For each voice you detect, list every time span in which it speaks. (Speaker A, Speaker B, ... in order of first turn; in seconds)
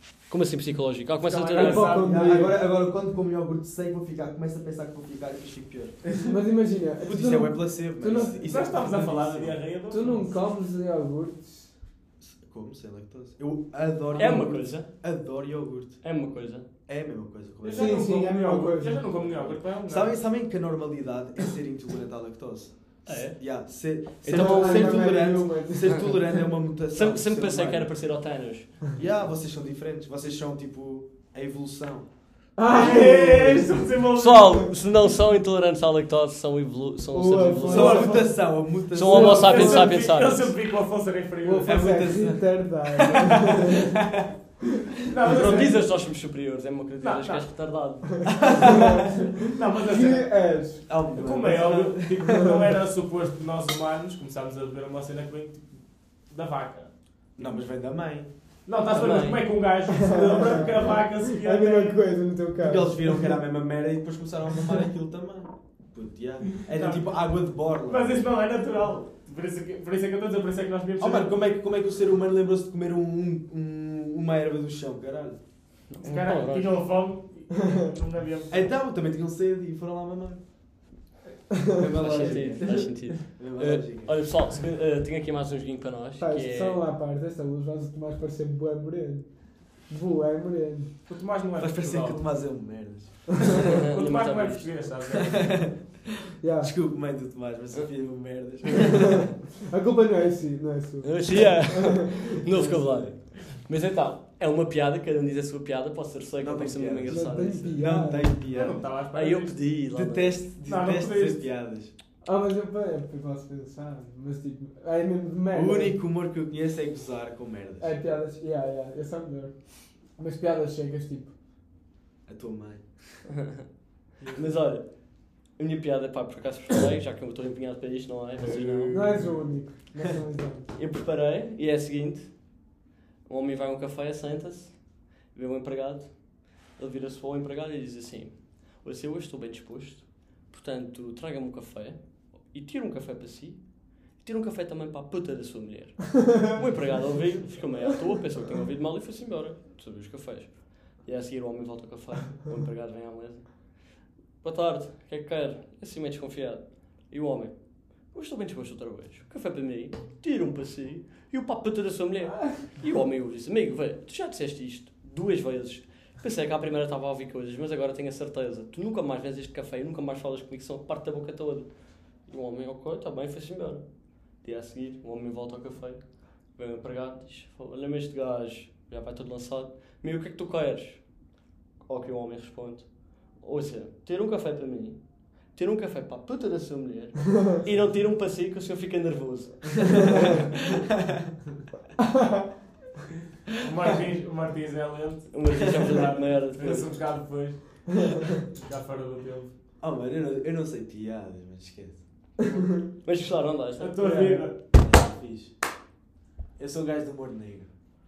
Speaker A: 0.3-2.0, 14.2-14.9, 16.0-16.7, 23.1-23.6, 24.2-25.1, 26.9-29.0, 34.2-40.5, 45.3-48.8, 58.9-59.4, 75.9-76.8, 82.0-86.8, 93.7-94.8, 101.0-107.9, 109.1-110.4, 124.3-129.0, 130.8-132.8, 133.3-153.8, 154.4-181.3, 181.8-190.3, 195.3-196.9, 203.0-204.1
Speaker B: 1.2-2.4, 8.1-10.3, 17.6-20.3, 32.7-34.7, 39.1-42.0, 45.1-45.9, 47.0-47.5, 49.1-50.5, 51.1-57.5, 58.7-62.0, 66.7-71.3, 76.0-78.7, 82.2-83.0, 91.1-92.3, 93.8-95.8, 108.5-109.6, 110.6-111.5, 124.2-124.6, 128.5-129.4, 193.5-199.5, 203.8-204.6
Speaker C: 1.6-2.6, 6.2-8.8, 9.9-11.7, 17.7-19.1, 24.3-26.4, 32.6-33.8, 37.1-39.9, 41.4-44.0, 48.5-50.9, 60.0-63.4, 86.2-90.9, 96.4-96.7, 99.3-102.3, 107.1-108.3, 112.2-116.0, 117.8-121.3, 128.9-130.7, 204.0-204.5
Speaker D: 1.9-6.1, 7.0-9.6, 12.2-16.0, 16.9-18.0, 19.2-27.9, 29.0-32.1, 37.7-39.9, 41.6-44.3, 48.3-49.1, 50.9-52.2, 57.4-58.3, 62.6-68.2, 71.0-75.4, 78.5-80.4, 81.8-84.2, 91.6-93.6, 95.4-96.0, 96.6-99.3, 102.5-103.2, 106.4-108.9, 109.9-111.9, 115.5-117.9, 122.3-123.2, 128.4-129.3, 199.8-202.0, 204.8-205.5, 206.6-207.7